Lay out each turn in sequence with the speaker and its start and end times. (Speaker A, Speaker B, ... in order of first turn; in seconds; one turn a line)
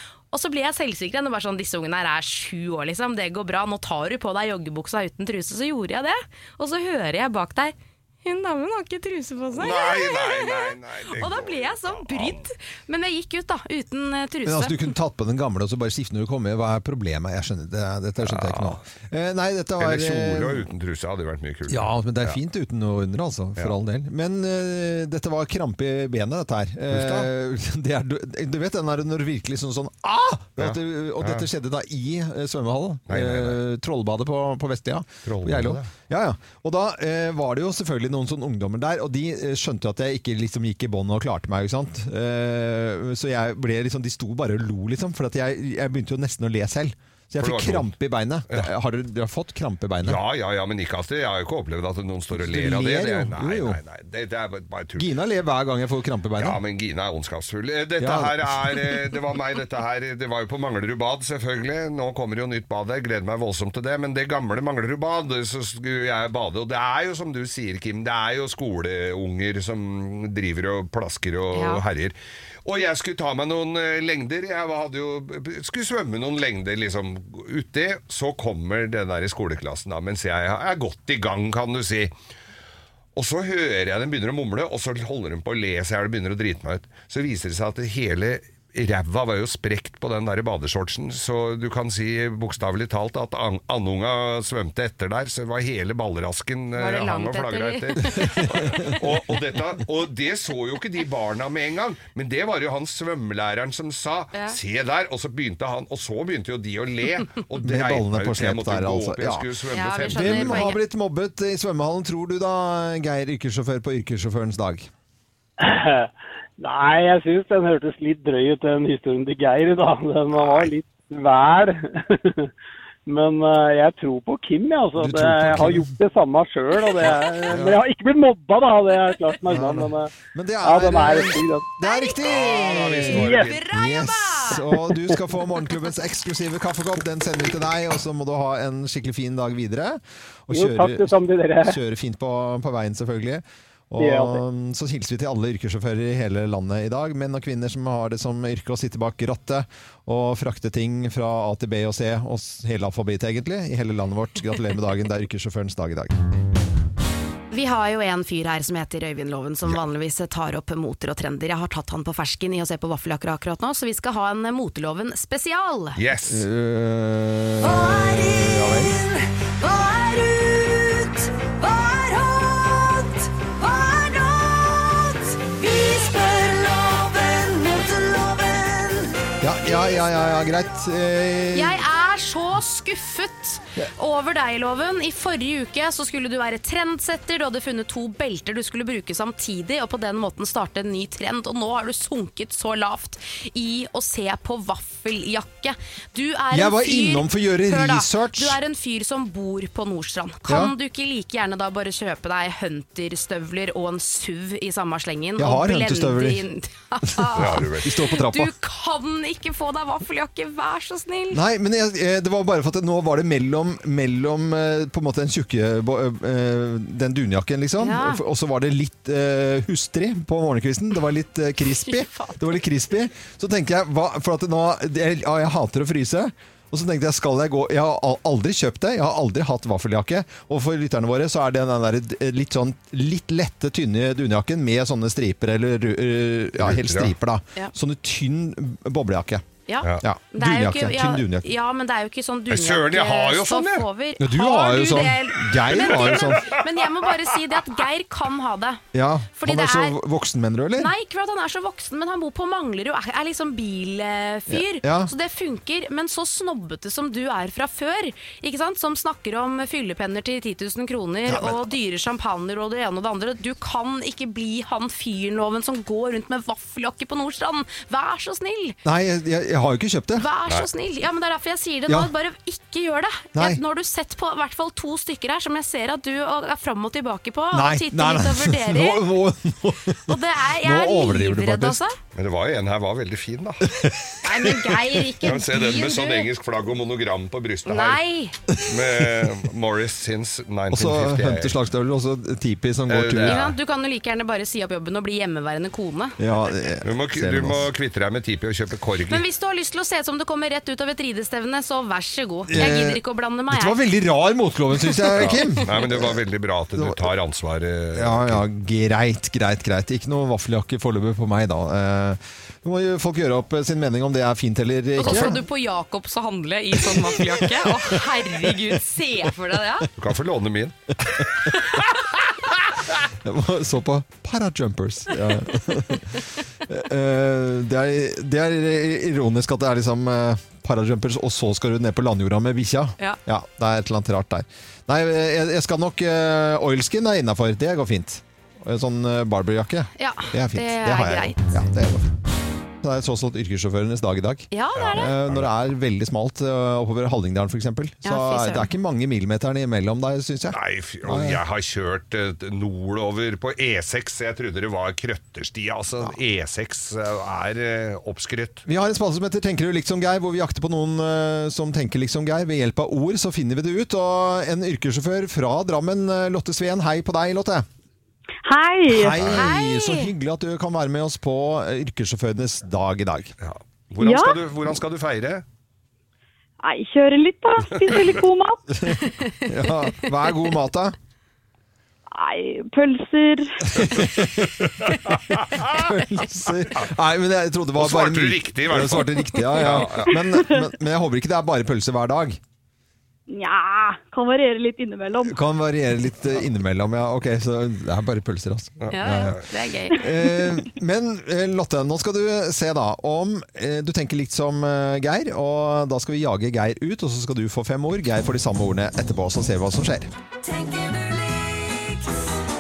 Speaker A: 0.3-14.9
Speaker B: 9.5-12.4
Speaker C: 14.5-20.7
Speaker B: 18.2-18.8
Speaker B: 19.8-22.4
Speaker C: 21.7-50.2
Speaker B: 26.9-27.3
Speaker B: 30.6-31.5
Speaker B: 33.1-33.6
Speaker B: 35.2-35.9
Speaker B: 47.4-47.9
Speaker B: 50.0-55.1
Speaker C: 52.3-53.8
Speaker C: 55.0-56.6
Speaker B: 56.4-82.1
Speaker C: 58.0-59.0
Speaker A: 71.5-71.8
Speaker B: 83.2-110.7
Speaker A: 96.8-98.6
Speaker C: 107.6-109.5
Speaker A: 109.7-110.8
Speaker C: 110.1-114.9
Speaker D: 115.6-122.5
Speaker B: 120.4-120.7
Speaker D: 123.1-130.1
Speaker C: 125.0-125.9
Speaker C: 127.0-127.8
Speaker C: 129.5-156.1
Speaker D: 130.6-131.7
Speaker A: 131.8-134.7
Speaker B: 132.2-133.6
Speaker D: 133.2-133.5
Speaker D: 140.5-141.8
Speaker D: 144.0-144.4
Speaker A: 157.5-166.0
Speaker B: 165.9-166.4
Speaker C: 166.3-169.0
Speaker A: 167.6-179.1
Speaker C: 179.4-181.8
Speaker A: 181.5-211.4
Speaker C: 196.5-198.6
Speaker C: 200.5-200.7
Speaker C: 205.4-206.4
Speaker C: 207.2-208.5
Speaker B: 207.3-207.9
Speaker C: 211.3-239.4
Speaker A: 217.8-218.2
Speaker A: 221.9-222.4
Speaker B: 236.6-237.1
Speaker A: 239.7-248.8
Speaker C: 240.0-241.5
Speaker B: 242.5-243.9
Speaker C: 244.2-246.6
Speaker C: 248.9-250.9
Speaker A: 249.4-250.0
Speaker A: 250.8-268.8
Speaker C: 254.5-255.1
Speaker C: 261.3-261.7
Speaker C: 268.9-270.3
Speaker A: 270.2-279.1
Speaker C: 273.4-273.6
Speaker C: 277.5-281.8
Speaker A: 280.1-282.0
Speaker B: 282.1-283.8
Speaker C: 283.7-284.8
Speaker A: 284.2-286.3
Speaker B: 285.2-288.0
Speaker A: 287.6-288.4
Speaker B: 288.7-291.6
Speaker C: 290.7-293.5
Speaker B: 292.9-293.6
Speaker A: 293.2-296.2
Speaker C: 296.2-297.7
Speaker B: 296.8-299.2
Speaker A: 299.1-303.8
Speaker C: 302.5-306.1
Speaker B: 305.2-308.4
Speaker C: 306.8-307.0
Speaker C: 307.9-315.4
Speaker A: 315.0-319.9
Speaker B: 320.0-320.8
Speaker C: 323.2-342.1
Speaker A: 340.0-341.4
Speaker C: 342.8-351.4
Speaker A: 344.5-345.1
Speaker B: 344.8-345.5
Speaker A: 348.1-348.7
Speaker B: 350.5-358.6
Speaker C: 358.7-367.7
Speaker E: 368.4-369.2
Speaker C: 368.9-373.3
Speaker B: 369.2-369.5
Speaker A: 369.2-370.1
Speaker B: 373.4-375.4
Speaker E: 374.0-374.4
Speaker E: 376.6-378.6
Speaker C: 378.8-380.9
Speaker E: 382.1-383.8
Speaker C: 383.7-384.7
Speaker B: 384.9-385.7
Speaker C: 385.3-392.4
Speaker B: 387.8-390.2
Speaker E: 390.3-390.7
Speaker E: 393.3-395.4
Speaker C: 395.2-399.4
Speaker B: 398.8-399.4
Speaker A: 398.9-400.1
Speaker C: 399.9-410.1